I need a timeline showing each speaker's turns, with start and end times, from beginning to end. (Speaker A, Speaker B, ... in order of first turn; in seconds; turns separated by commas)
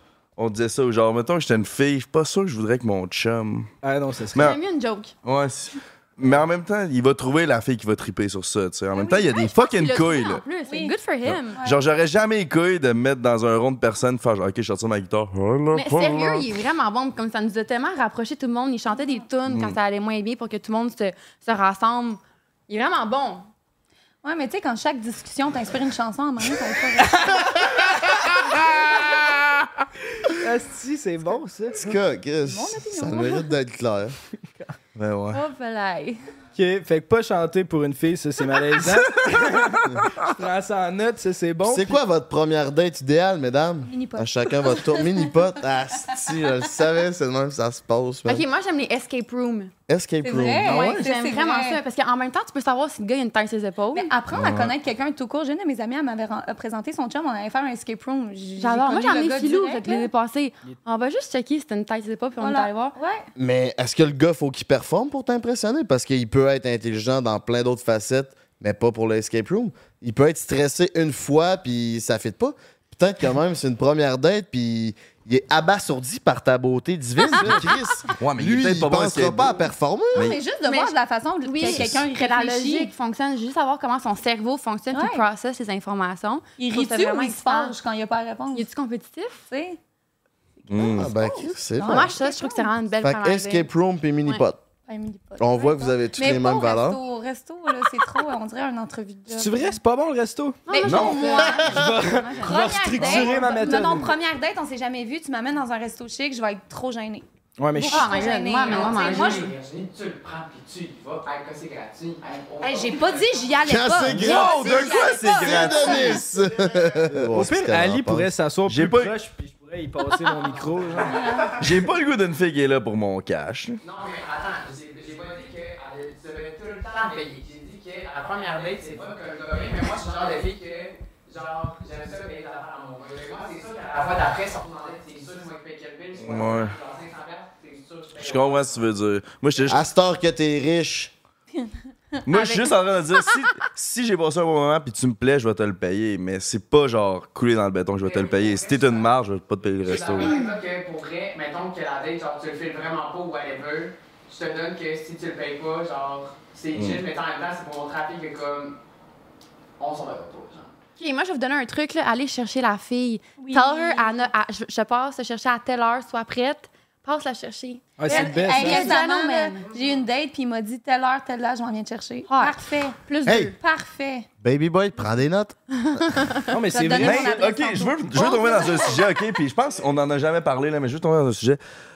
Speaker A: 0.4-3.7, Speaker B: 3.8-4.5, Speaker C: 4.3-5.1, Speaker A: 5.2-10.4, Speaker C: 8.9-11.5, Speaker D: 10.6-11.8, Speaker A: 11.2-16.5, Speaker C: 15.7-23.5, Speaker A: 19.5-19.8, Speaker D: 24.2-27.4, Speaker B: 30.3-31.8, Speaker E: 31.7-34.1, Speaker D: 32.4-33.5, Speaker A: 34.9-35.4, Speaker C: 35.3-36.2, Speaker B: 36.5-42.0, Speaker E: 41.6-48.4, Speaker D: 43.8-45.1, Speaker C: 48.2-49.7, Speaker E: 49.9-51.0, Speaker D: 50.2-51.8, Speaker C: 50.6-54.1, Speaker D: 53.9-60.1, Speaker A: 54.3-54.7, Speaker C: 58.6-63.0, Speaker D: 62.4-63.3, Speaker E: 63.4-80.4, Speaker B: 77.3-77.6, Speaker A: 78.2-79.5, Speaker D: 80.1-82.9, Speaker C: 80.6-87.7, Speaker A: 81.7-81.9, Speaker D: 84.9-85.2, Speaker D: 86.6-88.7, Speaker C: 88.5-89.4, Speaker D: 89.5-89.8, Speaker D: 90.6-92.7, Speaker A: 90.7-91.2, Speaker E: 90.8-92.2, Speaker C: 91.8-93.7, Speaker E: 93.0-94.6, Speaker D: 94.9-99.8, Speaker E: 95.4-97.0, Speaker B: 99.3-100.7, Speaker C: 100.7-104.0, Speaker D: 100.8-101.8, Speaker A: 100.8-101.3, Speaker B: 101.6-104.1, Speaker D: 102.4-109.5, Speaker B: 107.6-108.2, Speaker C: 107.8-109.5, Speaker F: 108.6-113.5, Speaker D: 112.6-116.2, Speaker E: 113.6-118.3, Speaker A: 114.0-116.2, Speaker B: 117.3-121.2, Speaker A: 118.7-119.1, Speaker D: 121.0-121.7, Speaker A: 121.6-123.8, Speaker F: 123.8-138.8, Speaker A: 136.2-136.8, Speaker A: 138.2-139.8, Speaker E: 139.7-141.1, Speaker D: 141.6-142.6, Speaker A: 142.2-150.3, Speaker F: 148.0-149.1, Speaker F: 149.8-158.7, Speaker A: 156.7-157.0, Speaker F: 159.8-160.7, Speaker C: 161.0-169.6, Speaker D: 163.4-164.3, Speaker B: 168.0-168.9, Speaker D: 168.0-173.0, Speaker C: 172.3-173.5, Speaker E: 173.2-173.5, Speaker D: 173.6-174.3, Speaker E: 174.4-176.4, Speaker C: 175.9-176.5, Speaker B: 176.5-177.4, Speaker D: 176.6-179.1, Speaker A: 176.9-181.6